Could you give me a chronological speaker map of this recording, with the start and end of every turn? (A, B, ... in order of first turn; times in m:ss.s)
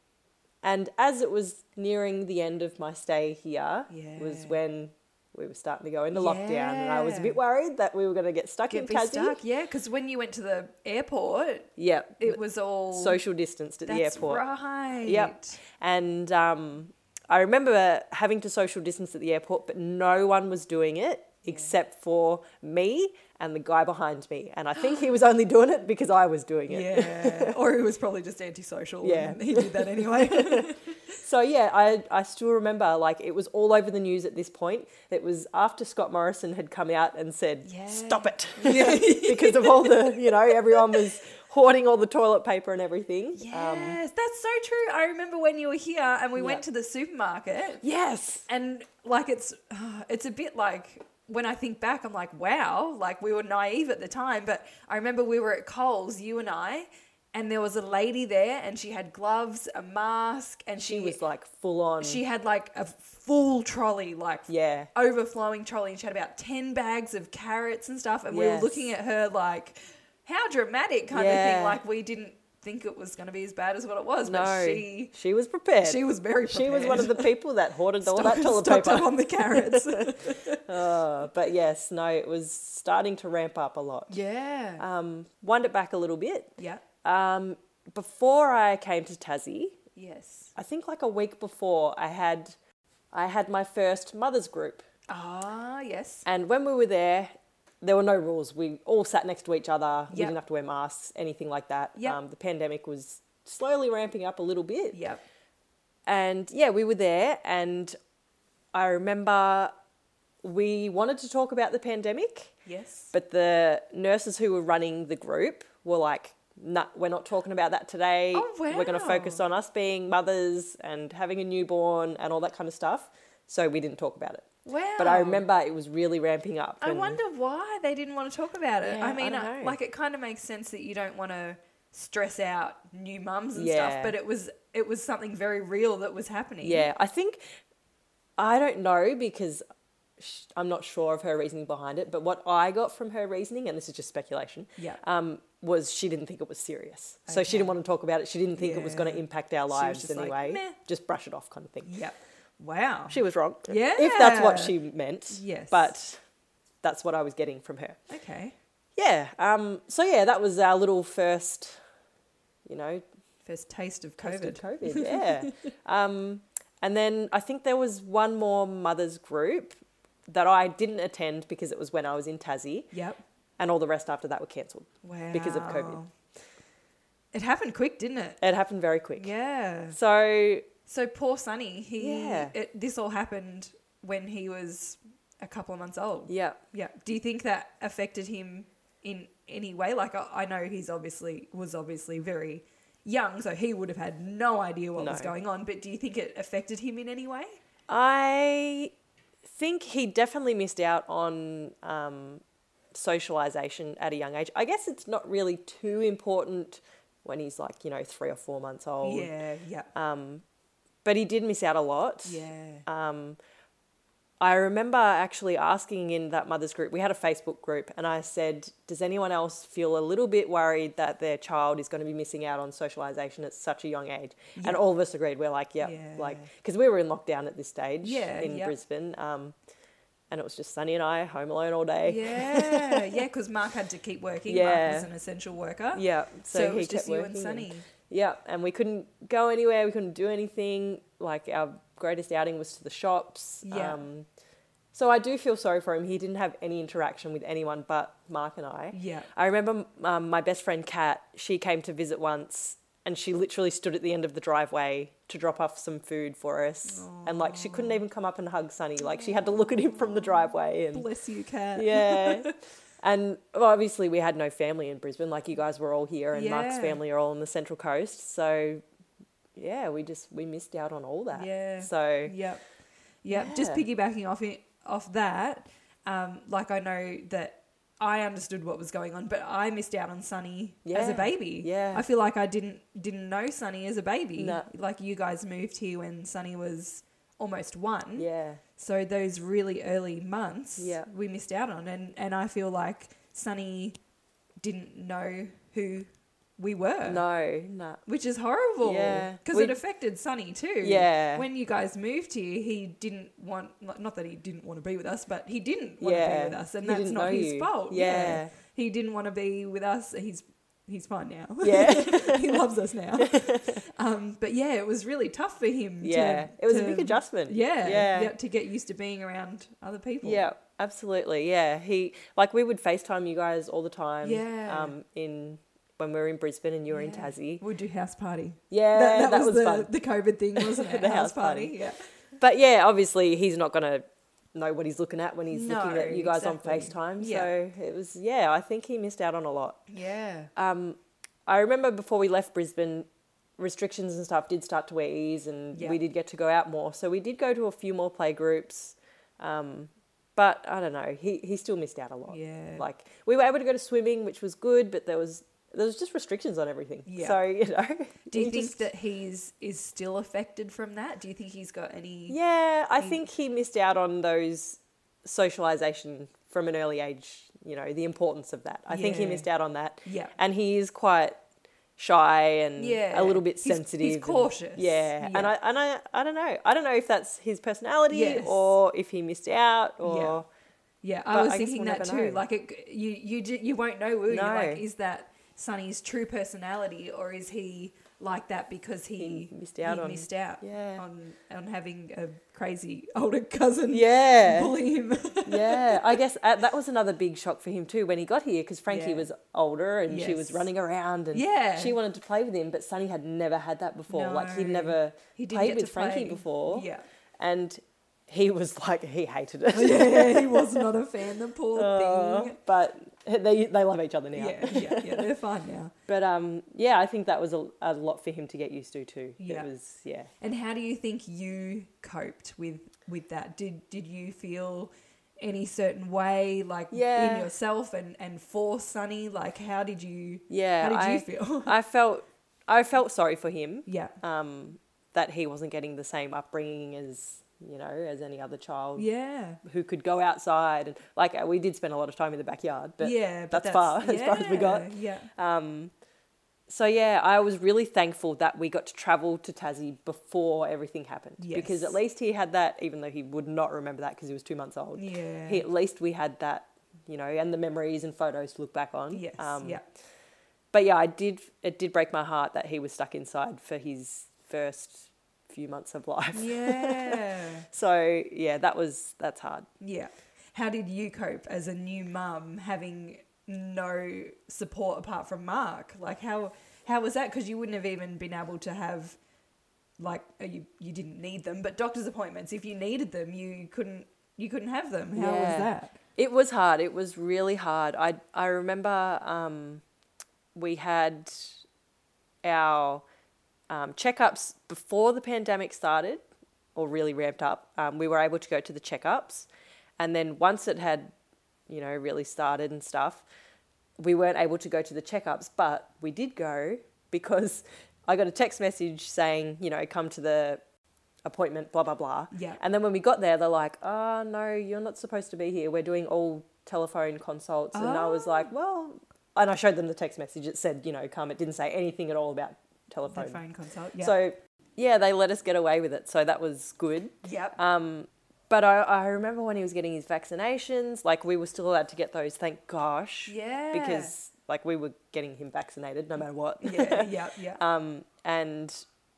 0:00.6-0:09.4 A
0:03.9-0:04.6 B
0:06.1-0:07.4 B
0:08.7-0:13.2 B
0:11.8-0:12.4 A
0:12.9-0:14.4 A
0:13.8-0:15.6 B
0:15.0-0:27.6 A
0:21.5-0:21.7 B
0:24.8-0:25.1 B
0:26.7-0:31.1 B
0:29.0-0:44.0 A
0:37.6-0:41.0 B
0:43.3-0:47.8 B
0:46.4-0:46.6 A
0:47.8-0:48.5 A
0:48.5-1:01.2 B
1:00.8-1:02.2 A
1:02.0-1:15.1 B
1:04.5-1:04.9 A
1:08.3-1:08.9 A
1:11.1-1:11.8 A
1:14.2-1:24.2 A
1:15.8-1:17.3 B
1:18.0-1:20.7 B
1:24.1-1:24.8 B
1:24.8-1:29.8 A
1:26.6-1:26.8 B
1:30.0-1:30.5 B
1:30.5-1:32.6 A
1:33.1-1:34.8 A
1:35.1-1:36.2 B
1:36.2-1:45.0 A
1:40.1-1:40.4 B
1:44.9-1:45.2 B
1:46.0-1:48.0 A
1:48.7-1:49.7 A
1:50.4-1:52.6 A
1:52.6-1:53.1 B
1:53.1-2:07.2 A
1:58.3-1:59.4 B
2:04.6-2:05.4 B
2:06.8-2:16.9 B
2:08.8-2:09.8 A
2:13.5-2:14.1 A
2:16.6-2:17.4 A
2:18.4-2:19.6 A
2:20.2-2:32.0 A
2:27.3-2:27.7 B
2:28.6-2:30.8 B
2:31.8-2:34.8 B
2:33.1-2:36.2 A
2:35.3-2:35.9 B
2:36.8-2:38.0 A
2:38.1-2:38.5 B
2:39.0-2:41.8 A
2:42.6-2:43.0 A
2:43.4-2:45.5 B
2:44.2-2:49.8 A
2:50.3-2:52.9 A
2:52.9-2:53.2 B
2:53.6-2:56.0 A
2:55.0-2:56.1 B
2:57.3-2:58.4 B
2:58.4-2:59.3 A
2:59.2-3:00.0 B
2:59.9-3:00.7 A
3:00.9-3:17.6 B
3:02.0-3:02.5 A
3:06.3-3:06.6 A
3:15.0-3:15.3 A
3:17.9-3:18.9 A
3:19.4-3:22.4 A
3:22.9-3:29.3 A
3:29.0-3:29.9 B
3:29.9-3:30.4 A
3:31.0-3:33.4 A
3:32.2-3:32.8 B
3:34.4-3:49.5 A
3:44.6-3:44.8 B
3:45.8-3:46.5 B
3:48.0-3:48.8 B
3:50.3-3:53.2 A
3:52.0-3:57.8 B
3:54.5-3:55.1 A
3:55.9-4:04.2 A
4:03.6-4:04.0 B
4:04.9-4:21.0 A
4:08.9-4:09.3 B
4:16.8-4:18.0 B
4:19.0-4:22.5 B
4:21.7-4:28.8 A
4:26.3-4:27.0 B
4:29.6-4:32.4 A
4:31.3-4:32.6 B
4:33.2-4:54.0 B
4:33.3-4:33.8 A
4:40.8-4:42.0 A
4:44.4-4:44.7 A
4:48.2-4:48.6 A
4:50.8-4:51.1 A
4:54.6-4:57.2 B
4:57.0-4:58.0 A
4:58.0-5:20.5 B
4:58.8-4:59.8 A
5:00.8-5:01.5 A
5:06.0-5:08.5 A
5:11.6-5:12.6 A
5:13.2-5:13.8 A
5:16.0-5:18.3 A
5:20.2-5:27.6 A
5:24.2-5:25.0 B
5:26.9-5:32.1 B
5:28.7-5:29.9 A
5:30.6-5:31.7 A
5:32.4-5:39.8 A
5:35.5-5:37.5 B
5:39.9-5:40.5 B
5:40.5-5:43.1 A
5:43.6-5:58.8 A
5:45.7-5:46.0 B
5:52.3-5:52.8 B
5:57.0-5:57.4 B
5:58.3-6:02.4 B
6:02.3-6:11.4 A
6:03.0-6:03.2 B
6:08.9-6:09.5 B
6:10.0-6:10.3 B
6:12.0-6:20.5 A
6:12.8-6:15.5 B
6:18.1-6:18.7 B
6:20.0-6:20.4 B
6:21.0-6:36.2 B
6:21.3-6:22.4 A
6:24.3-6:24.8 A
6:29.2-6:31.0 A
6:33.9-6:34.8 A
6:35.4-6:46.9 A
6:38.9-6:39.3 B
6:40.1-6:40.7 B
6:41.3-6:42.0 B
6:44.1-6:47.0 B
6:47.4-6:50.9 A
6:49.7-6:52.6 B
6:51.7-6:55.2 A
6:54.4-6:55.9 B
6:56.1-7:00.3 A
6:59.4-6:59.7 B
7:00.4-7:11.7 B
7:06.9-7:07.5 A
7:10.5-7:19.1 A
7:13.8-7:14.2 B
7:19.0-7:19.6 B
7:19.6-7:25.9 A
7:23.0-7:25.3 B
7:26.7-7:39.8 A
7:31.4-7:32.0 B
7:35.0-7:35.6 B
7:39.1-7:39.8 B
7:40.7-7:49.7 A
7:46.3-7:47.7 B
7:49.8-7:59.2 B
8:00.0-8:06.0 B
8:05.2-8:09.8 A
8:10.5-8:11.6 A
8:12.4-8:13.0 A
8:13.7-8:16.2 A
8:16.8-8:19.5 A
8:20.0-8:21.1 A
8:21.7-8:23.2 A
8:24.0-8:30.6 A
8:31.2-8:43.4 A
8:32.3-8:32.6 B
8:37.7-8:38.5 B
8:43.1-8:44.1 B
8:44.0-8:58.8 A
8:47.2-8:47.6 B
8:53.3-8:54.1 B
8:56.6-8:57.6 B